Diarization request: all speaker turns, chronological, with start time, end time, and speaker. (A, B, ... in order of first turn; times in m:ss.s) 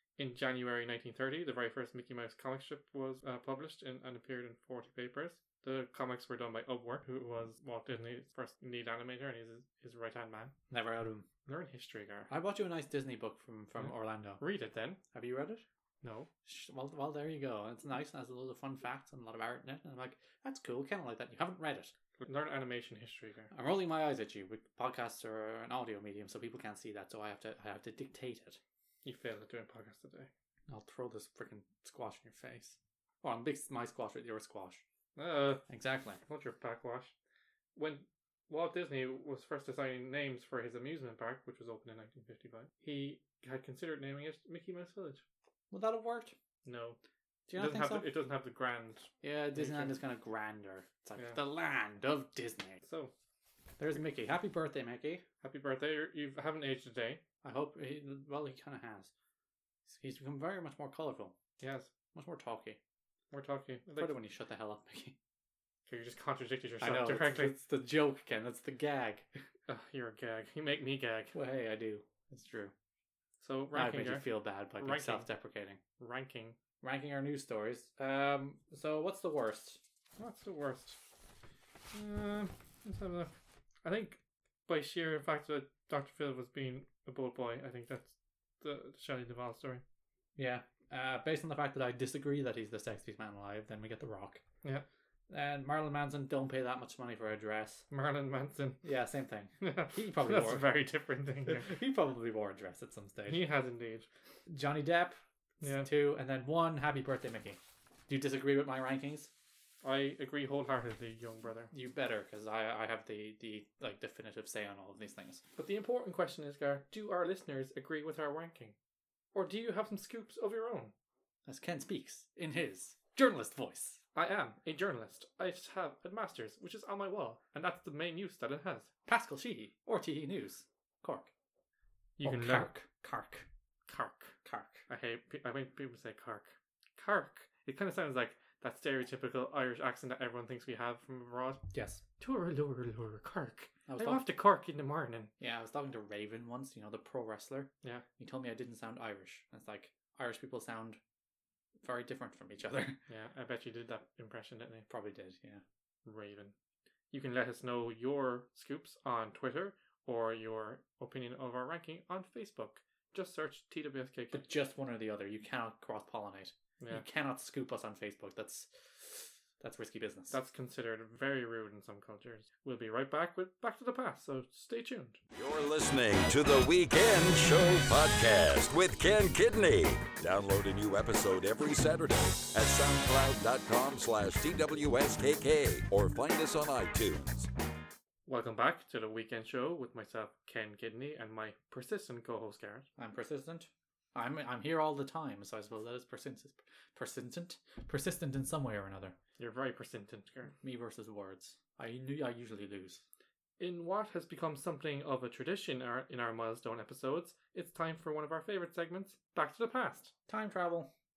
0:00.2-0:10.5 A
0:10.7-0:11.3 B
0:11.5-0:12.3 A
0:12.3-0:14.4 B
0:13.8-0:15.0 A
0:15.1-0:15.6 B
0:16.0-0:16.3 A
0:16.4-0:21.9 B
0:22.2-0:23.5 A
0:23.5-0:28.6 B
0:29.0-0:30.3 A
0:30.7-0:34.8 B
0:35.2-0:35.7 A
0:35.7-0:36.2 B
0:36.2-0:37.1 A
0:37.8-0:45.2 A
0:45.7-0:46.4 B
0:46.6-0:47.0 A
0:47.5-0:48.1 B
0:47.6-0:50.0 A
0:49.2-0:52.8 B
0:52.8-0:53.1 A
0:53.8-0:55.2 B
0:55.4-0:57.2 A
0:57.4-0:59.1 B
0:59.9-1:01.4 B
1:01.6-1:01.9 A
1:02.1-1:02.8 B
1:03.3-1:04.2 A
1:04.0-1:05.2 B
1:05.9-1:07.6 A
1:06.8-1:09.3 B
1:09.7-1:11.4 A
1:11.3-1:12.7 B
1:13.4-1:15.3 A
1:13.7-1:15.8 B
1:16.0-1:16.6 A
1:16.8-1:19.8 B
1:20.2-1:21.0 A
1:21.9-1:23.3 A
1:23.8-1:29.8 A
1:30.4-1:34.4 B
1:35.3-1:37.8 B
1:37.9-1:38.8 A
1:38.8-1:40.7 B
1:39.6-1:41.7 A
1:41.5-1:43.4 B
1:43.3-1:44.1 A
1:44.5-1:49.3 B
1:45.6-1:45.9 A
1:49.8-1:51.7 A
1:51.7-1:55.4 B
1:55.6-1:58.8 A
1:59.3-2:00.9 A
2:01.5-2:04.0 B
2:04.2-2:08.9 A
2:09.1-2:11.3 B
2:12.2-2:12.7 A
2:12.2-2:13.5 B
2:13.9-2:21.6 A
2:14.4-2:14.8 B
2:21.7-2:22.0 B
2:22.2-2:25.3 A
2:23.9-2:24.3 B
2:25.4-2:31.0 B
2:31.8-2:33.0 B
2:33.1-2:34.9 A
2:34.9-2:35.6 B
2:36.0-2:36.6 A
2:37.1-2:44.4 A
2:44.3-2:50.4 B
2:50.3-2:55.2 A
2:55.3-3:07.5 C
3:08.3-3:12.9 A
3:13.0-3:19.2 B
3:19.4-3:20.5 A
3:20.6-3:23.0 B
3:23.6-3:30.1 A
3:30.3-3:30.9 B